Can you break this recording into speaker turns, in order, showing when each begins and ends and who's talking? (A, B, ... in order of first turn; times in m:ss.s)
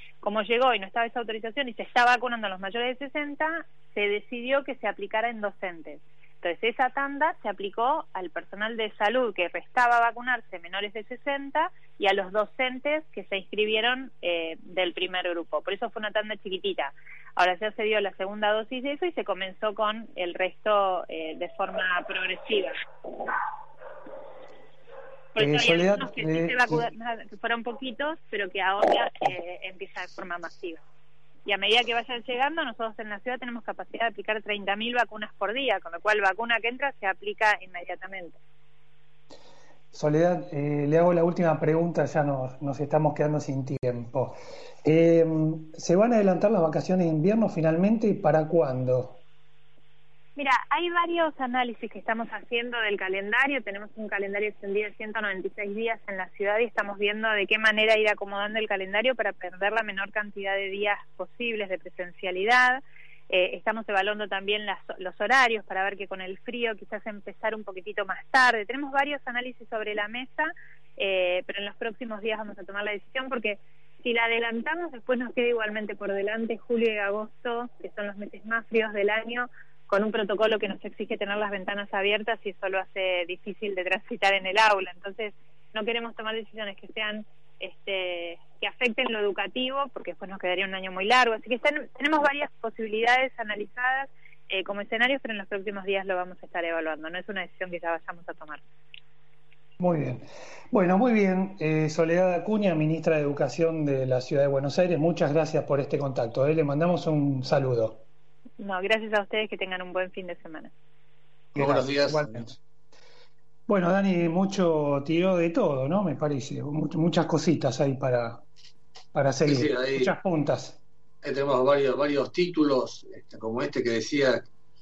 0:00.2-0:22.8 A
0:25.4-0:30.8 A
0:25.4-0:26.9 B
0:31.5-0:38.4 A
0:39.9-0:49.2 B
0:50.4-1:38.6 A
1:39.8-1:48.0 B
1:48.6-1:50.7 A
1:51.6-1:52.6 B
1:51.6-1:52.5 C
1:53.7-1:58.4 B
1:59.1-2:00.8 B
1:59.5-2:00.1 C
2:01.2-2:04.4 C